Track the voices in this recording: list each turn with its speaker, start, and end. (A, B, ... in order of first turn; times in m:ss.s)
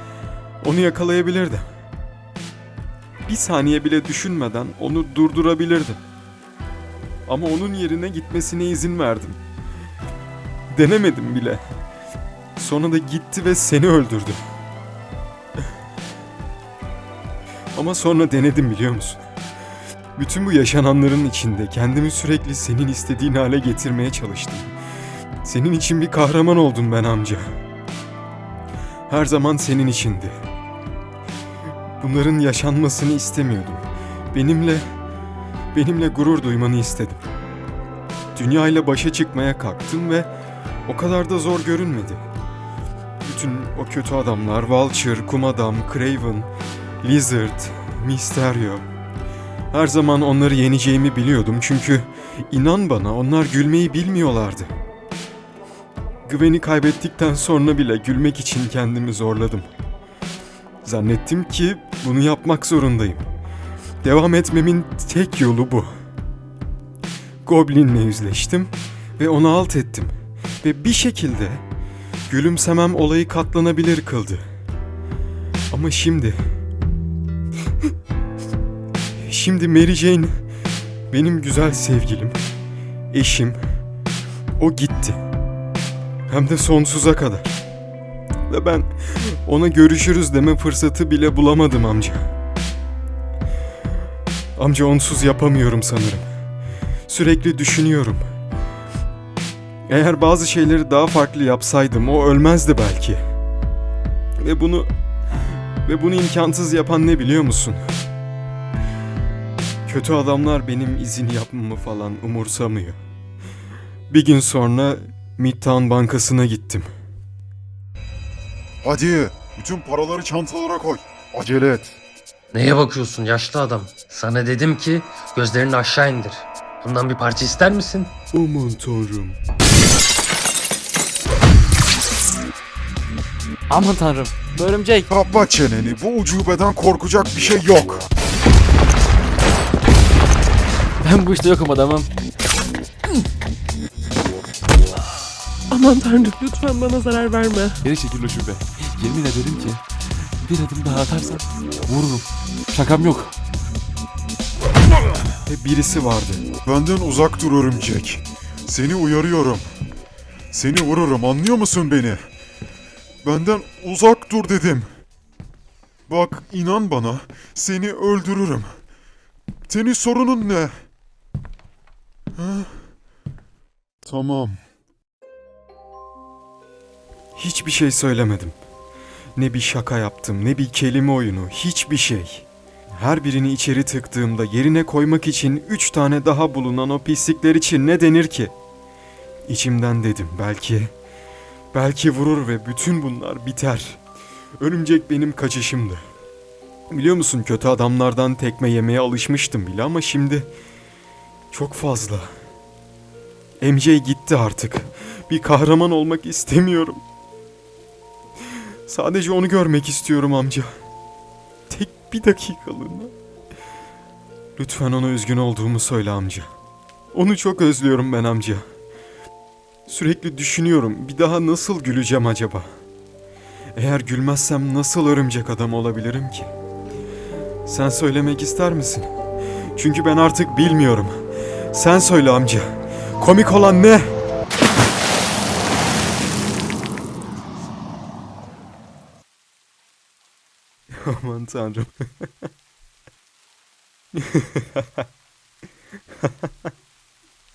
0:00.6-0:01.6 A
0:03.2-0:06.0 A
0:07.3-0:09.4 A
0:10.7-0:11.6 A
0:12.6-0:14.4 A
0:17.7-0:19.2 A
0:20.2-0:24.7 A
0:25.4-0:27.5 A
0:29.1-0:30.3 A
0:32.0-0:34.8 A
0:35.7-0:37.2 A
0:38.3-0:40.3 A
0:40.9-0:42.2 A
0:43.2-0:46.5 A
0:47.0-0:48.8 A
0:49.7-0:54.7 A
0:56.2-0:59.7 A
1:00.8-1:03.2 A
1:04.0-1:05.9 A
1:07.4-1:11.6 A
1:12.3-1:14.4 A
1:15.7-1:16.4 A
1:19.2-1:20.3 A
1:21.1-1:22.4 A
1:23.1-1:23.6 A
1:24.6-1:25.2 A
1:26.3-1:27.6 A
1:28.5-1:32.3 A
1:34.6-1:36.2 A
1:37.1-1:38.2 A
1:39.9-1:43.2 A
1:44.4-1:44.9 A
1:45.8-1:47.8 A
1:49.8-1:53.0 A
1:54.1-1:56.9 A
1:58.8-2:02.0 B
2:02.5-2:08.1 C
2:08.3-2:09.4 A
2:13.7-2:15.1 D
2:15.1-2:18.0 B
2:21.0-2:22.1 D
2:25.7-2:27.8 E
2:27.8-2:33.4 F
2:35.4-2:36.4 A
2:36.6-2:39.7 B
2:40.5-2:42.2 B
2:43.2-2:44.9 B
2:46.1-2:48.7 B
2:49.7-2:50.7 B
2:52.4-2:52.7 B
2:54.0-2:54.6 B
2:57.4-2:58.5 A
2:59.4-3:08.5 A
3:09.5-3:10.9 A
3:11.7-3:14.0 A
3:14.6-3:16.0 A
3:16.9-3:20.5 A
3:21.5-3:22.3 A
3:23.6-3:27.0 A
3:28.5-3:30.7 A
3:31.7-3:33.1 A
3:34.6-3:36.5 A
3:37.1-3:38.6 A
3:39.9-3:42.7 A
3:43.7-3:46.5 A
3:47.6-3:49.1 A
3:49.7-3:51.2 A
3:51.7-3:54.1 A
4:00.9-4:02.3 A
4:04.1-4:05.0 A
4:06.2-4:06.7 A